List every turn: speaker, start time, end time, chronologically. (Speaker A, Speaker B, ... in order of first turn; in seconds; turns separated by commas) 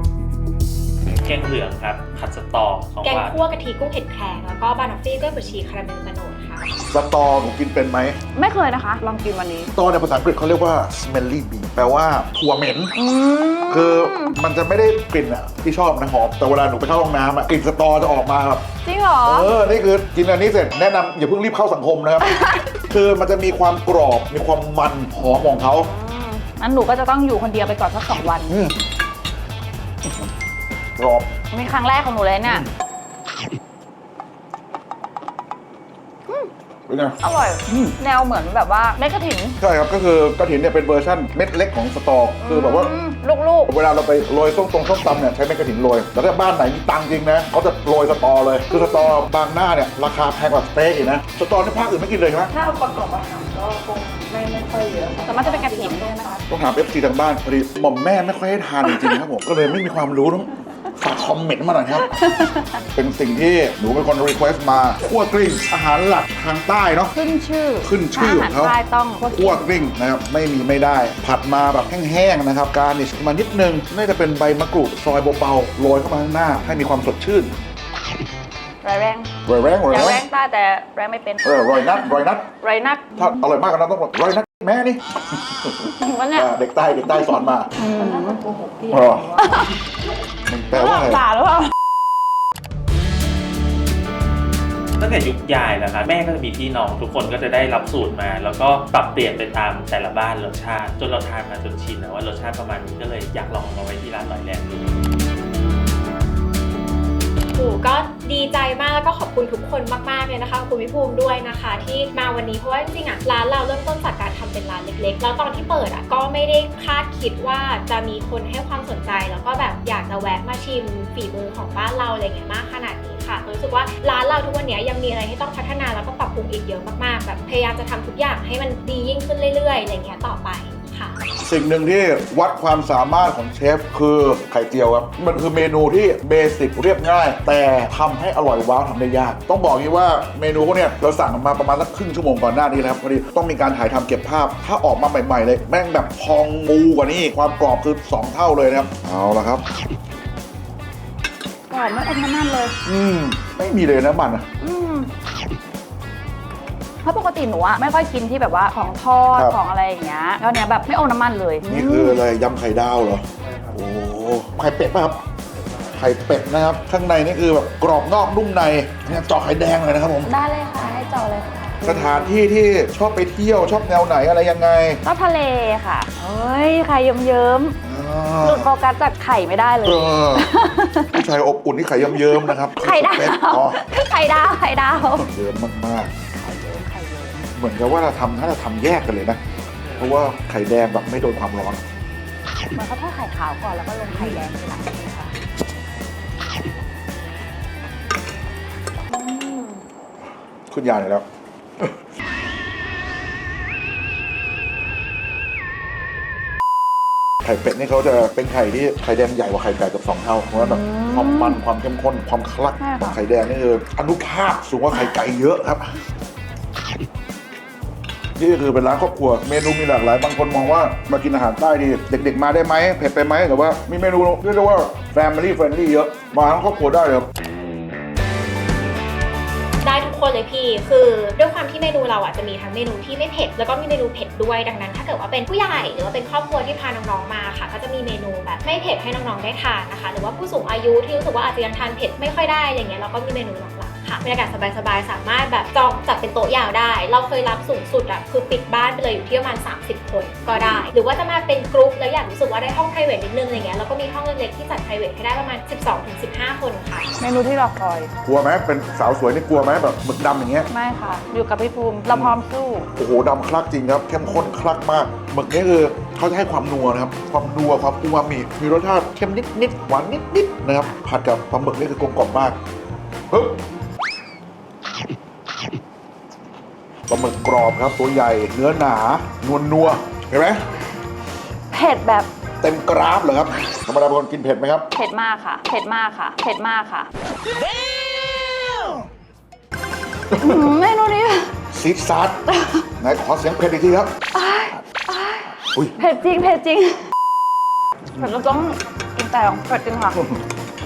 Speaker A: 1.1-3.4, Speaker B: 3.0-6.7, Speaker C: 6.9-8.2, Speaker D: 8.3-9.7, Speaker C: 9.7-12.9, Speaker D: 12.9-14.4, Speaker C: 13.7-18.6, Speaker D: 18.8-19.5, Speaker C: 19.2-25.9, Speaker D: 22.2-22.7, Speaker D: 25.7-28.6, Speaker C: 28.5-28.8, Speaker C: 31.0-31.3, Speaker D: 31.5-32.6, Speaker C: 32.4-32.7, Speaker C: 36.9-37.9, Speaker D: 37.2-39.6, Speaker C: 39.6-42.9, Speaker D: 42.4-43.7, Speaker C: 43.7-52.5, Speaker D: 48.7-49.1, Speaker E: 52.5-56.3, Speaker D: 55.2-56.4, Speaker C: 56.5-62.1, Speaker D: 58.8-59.2, Speaker D: 62.0-62.8, Speaker C: 62.9-67.1, Speaker D: 67.1-69.9, Speaker C: 67.8-77.5, Speaker D: 78.8-79.3, Speaker C: 79.5-80.2, Speaker D: 79.9-83.4, Speaker C: 81.4-82.5, Speaker C: 83.2-87.7, Speaker D: 85.9-86.5, Speaker D: 87.1-88.4, Speaker E: 88.1-89.3, Speaker C: 88.9-89.4, Speaker D: 89.4-89.8, Speaker C: 90.5-91.2, Speaker D: 90.7-91.7, Speaker A: 95.0-104.9, Speaker B: 107.5-131.2, Speaker C: 131.4-149.6, Speaker D: 151.7-152.8, Speaker C: 152.8-154.4, Speaker D: 154.6-155.1, Speaker D: 157.0-162.2, Speaker C: 159.3-159.6, Speaker C: 161.7-165.2, Speaker C: 165.9-170.3, Speaker D: 170.2-172.4, Speaker C: 171.8-175.0, Speaker D: 175.0-177.7, Speaker C: 177.8-178.7, Speaker D: 178.4-181.2, Speaker C: 179.8-180.5, Speaker C: 181.1-183.8, Speaker D: 182.1-185.3, Speaker C: 185.0-186.1, Speaker D: 186.4-187.3, Speaker C: 187.5-189.4, Speaker C: 189.9-191.8, Speaker D: 192.7-195.3, Speaker D: 199.1-199.8, Speaker C: 200.7-201.2, Speaker C: 207.4-216.0, Speaker D: 210.6-211.6, Speaker D: 212.8-213.2, Speaker C: 218.3-227.3, Speaker B: 229.8-257.1, Speaker D: 250.5-250.9, Speaker D: 257.2-258.1, Speaker C: 258.2-260.7, Speaker D: 260.7-262.9, Speaker C: 262.1-262.4, Speaker C: 262.9-272.6, Speaker C: 273.3-273.6, Speaker C: 277.1-280.6, Speaker D: 281.7-282.3, Speaker C: 282.6-284.9, Speaker D: 284.9-287.1, Speaker C: 290.3-290.7, Speaker D: 290.4-291.5, Speaker C: 291.7-292.4, Speaker D: 292.5-292.9, Speaker C: 293.0-294.1, Speaker D: 294.3-297.0, Speaker C: 298.1-298.6, Speaker D: 298.1-300.2